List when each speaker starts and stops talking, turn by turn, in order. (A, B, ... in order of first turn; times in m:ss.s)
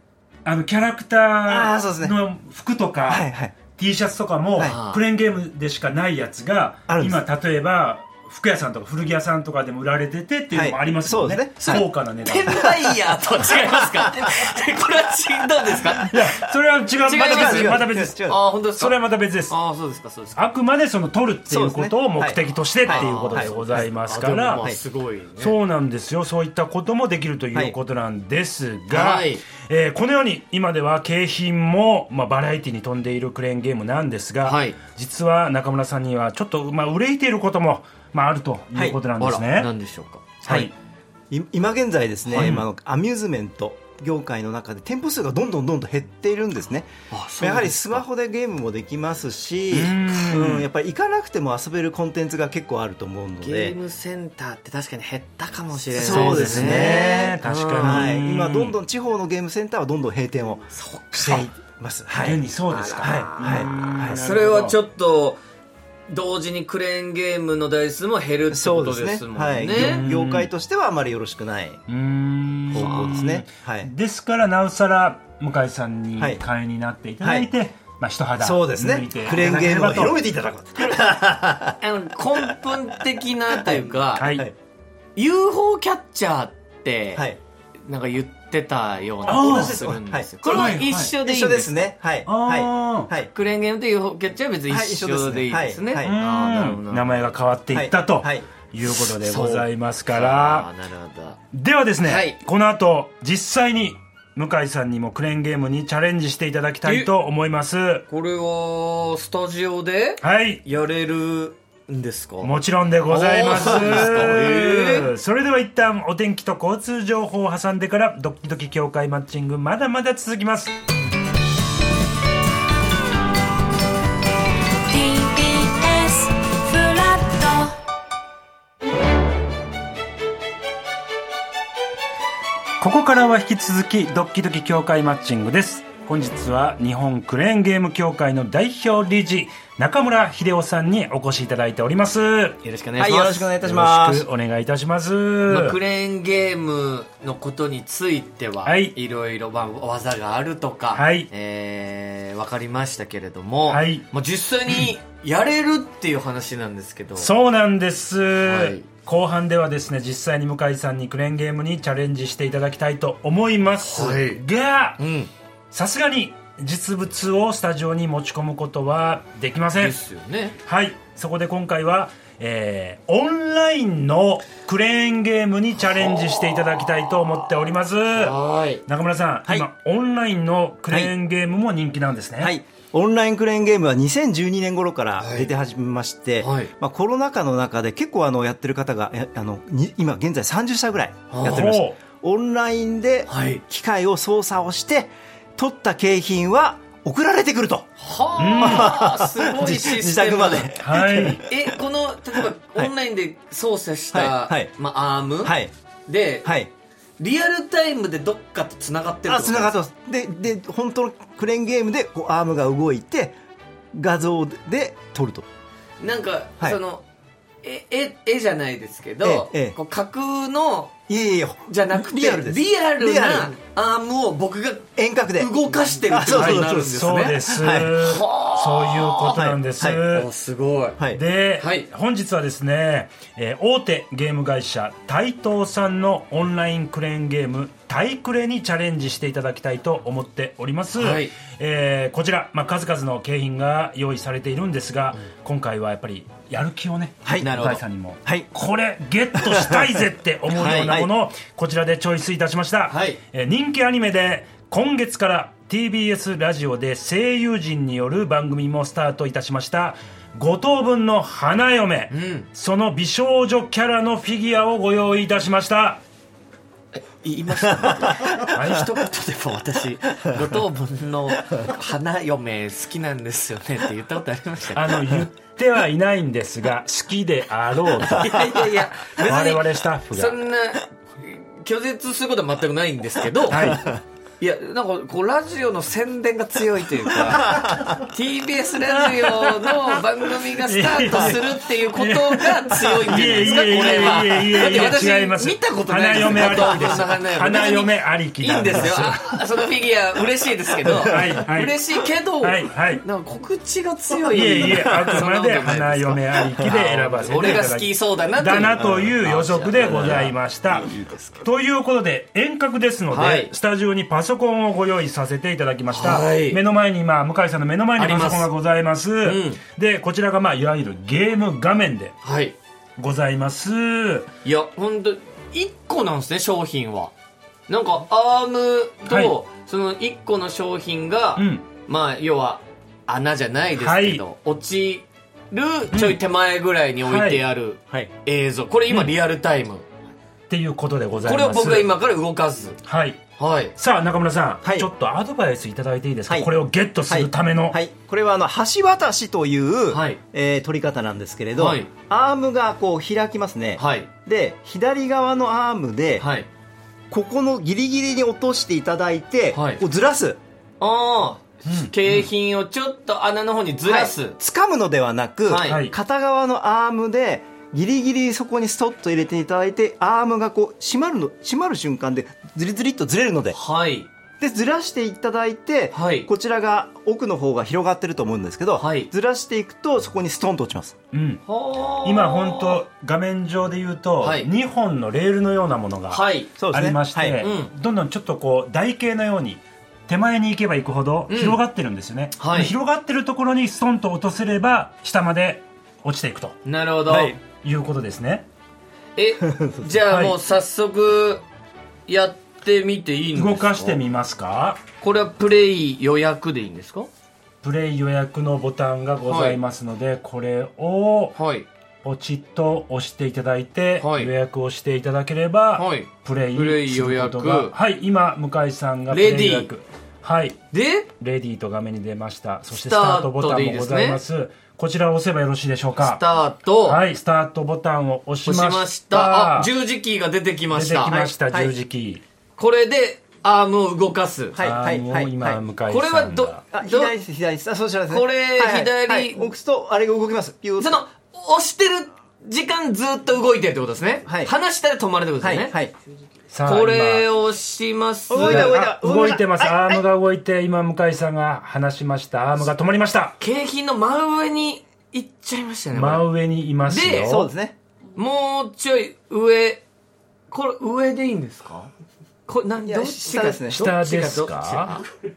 0:00.4-0:12.7 A
0:01.4-0:02.2 B
0:03.0-0:03.5 B
0:04.6-0:05.0 C
0:06.9-0:07.2 B
0:10.5-0:11.9 B
0:11.6-0:16.2 C
0:16.1-0:18.2 A
0:17.0-0:18.9 C
0:17.1-0:18.4 B
0:18.8-0:19.5 A
0:19.5-0:20.4 C
0:20.4-0:24.6 A
0:21.5-0:23.5 B
0:22.9-0:25.6 C
0:25.4-0:39.7 A
0:28.9-0:29.4 C
0:34.4-0:34.8 C
0:39.2-0:40.4 C
0:40.4-0:40.7 A
0:40.4-0:40.7 B
0:41.3-0:53.8 B
0:42.3-0:42.6 A
0:47.1-0:48.0 C
0:49.7-0:50.7 A
0:53.4-0:58.1 C
0:55.9-1:02.4 B
0:56.0-0:58.8 A
1:00.7-1:01.4 C
1:02.2-1:04.8 A
1:02.7-1:05.4 C
1:03.0-1:04.2 B
1:06.1-1:10.0 C
1:08.5-1:11.8 B
1:09.7-1:10.5 A
1:11.9-1:20.2 A
1:12.7-1:13.9 B
1:12.7-1:13.1 C
1:17.2-1:17.5 B
1:18.4-1:21.8 B
1:20.8-1:21.0 C
1:21.8-1:24.3 C
1:24.1-1:24.4 A
1:25.2-1:27.2 C
1:27.8-1:31.9 C
1:29.2-1:29.8 A
1:29.3-1:33.3 B
1:30.4-1:31.1 A
1:32.2-1:33.1 A
1:33.3-1:37.3 C
1:34.7-1:36.1 B
1:36.0-1:40.7 A
1:37.7-1:38.4 B
1:38.9-1:41.4 C
1:41.5-1:48.0 A
1:42.0-1:42.4 C
1:46.8-1:47.1 C
1:48.1-1:52.5 C
1:50.2-1:50.6 A
1:52.4-2:00.7 A
1:53.1-1:55.1 C
2:04.7-2:07.7 D
2:12.8-2:22.6 A
2:22.6-2:23.5 C
2:23.0-2:24.2 B
2:23.6-2:25.8 A
2:25.4-2:37.3 C
2:28.6-2:28.9 A
2:30.9-2:31.3 A
2:33.7-2:34.0 A
2:37.2-2:45.0 A
2:38.4-2:38.8 C
2:43.8-2:44.4 C
2:45.0-2:45.3 C
2:45.7-2:50.0 A
2:49.8-2:50.6 C
2:50.6-3:02.5 A
2:58.1-2:58.8 C
3:02.4-3:17.9 B
3:05.2-3:05.5 C
3:06.4-3:06.7 C
3:11.3-3:11.7 C
3:11.4-3:12.0 A
3:13.3-3:13.6 C
3:18.0-3:20.7 C
3:18.4-3:19.0 A
3:18.6-3:21.4 B
3:20.8-3:21.4 A
3:21.4-3:25.5 C
3:24.1-3:24.7 B
3:25.4-3:25.7 B
3:26.1-3:26.5 C
3:26.4-3:26.7 B
3:27.2-3:29.8 C
3:29.2-3:33.4 B
3:33.9-3:35.4 B
3:36.0-3:37.0 C
3:37.6-3:40.9 C
3:39.2-3:39.8 B
3:41.1-3:43.5 B
3:41.7-3:47.4 C
3:45.0-3:45.5 B
3:46.1-3:46.9 B
3:46.3-3:50.3 A
3:47.4-3:48.0 B
3:48.0-3:49.4 C
3:49.3-3:50.0 B
3:50.0-3:51.0 C
3:51.1-4:26.0 A
3:51.6-3:51.8 C
4:01.0-4:01.3 C
4:07.2-4:07.5 B
4:07.4-4:07.8 C
4:09.4-4:10.0 B
4:10.5-4:10.9 C
4:10.6-4:11.1 B
4:12.9-4:13.2 C
4:22.1-4:22.4 C
4:27.2-4:35.2 C
4:28.3-4:29.0 A
4:34.7-4:40.4 A
4:38.0-4:43.8 C
4:43.5-4:43.9 A
4:43.7-4:44.0 B
4:44.4-5:11.4 C
4:47.5-4:47.8 B
4:49.0-4:49.9 A
4:50.6-4:59.3 A
5:01.0-5:01.8 A
5:02.4-5:03.0 A
5:04.3-5:22.2 A
5:13.1-5:13.5 C
5:15.9-5:16.6 C
5:18.0-5:18.5 C
5:19.2-5:19.6 C
5:22.2-5:22.6 C
5:23.0-5:24.3 A
5:24.4-5:27.1 C
5:27.7-5:39.8 C
5:31.4-5:31.6 A
5:33.8-5:34.2 A
5:35.9-5:36.2 A
5:37.0-5:37.4 A
5:40.5-5:41.9 A
5:41.2-5:42.8 C
5:42.8-5:43.2 A
5:43.4-5:43.7 C
5:43.8-5:47.8 A
5:44.6-5:44.9 B
5:47.0-5:56.3 B
5:49.9-5:50.2 C
5:51.6-5:51.9 C
5:53.8-5:54.1 C
5:56.2-5:56.5 C
5:57.1-6:00.4 B
5:59.5-5:59.8 C
6:00.8-6:04.4 C
6:01.6-6:02.2 A
6:03.8-6:13.6 B
6:05.5-6:05.8 C
6:05.6-6:05.9 A
6:13.5-6:14.1 C
6:14.4-6:21.0 B
6:15.9-6:16.3 C
6:18.8-6:19.1 C
6:21.1-6:21.4 A
6:21.4-6:22.8 C
6:22.0-6:36.6 A
6:24.2-6:24.5 C
6:26.1-6:26.5 C
6:26.6-6:27.4 B
6:27.4-6:27.7 C
6:31.3-6:31.6 C
6:32.4-6:32.7 C
6:36.6-6:37.4 C
6:37.1-6:37.4 B
6:37.4-6:38.4 A
6:39.2-6:41.4 C
6:39.4-6:39.9 B
6:40.0-6:40.3 A
6:42.1-6:44.0 C
6:43.3-6:44.8 A
6:45.0-6:47.1 C
6:47.6-6:51.4 A
6:49.2-6:49.6 C
6:51.3-6:51.7 C
6:52.0-7:00.6 A
6:54.0-6:54.3 C
6:55.8-6:57.7 C
6:59.1-6:59.7 C
7:00.7-7:01.1 C
7:01.2-7:06.2 A
7:02.7-7:04.2 C
7:06.0-7:07.0 C
7:06.8-7:09.7 A
7:08.4-7:11.3 C
7:10.7-7:12.2 A
7:12.6-7:14.6 C
7:14.5-7:15.6 B
7:14.6-7:16.6 A
7:15.9-7:17.1 C
7:16.7-7:21.0 B
7:18.1-7:19.5 C
7:20.8-7:25.7 C
7:24.2-7:24.5 B
7:25.4-7:25.9 B
7:26.5-7:27.3 A
7:26.6-7:28.8 C
7:28.3-7:30.0 B
7:28.3-7:33.4 A
7:33.4-7:36.3 C
7:35.9-7:37.5 A
7:36.9-7:37.3 C
7:37.3-7:37.8 B
7:38.2-7:39.8 C
7:40.5-7:41.9 C
7:42.5-7:45.0 C
7:42.8-7:43.8 B
7:43.7-7:44.9 A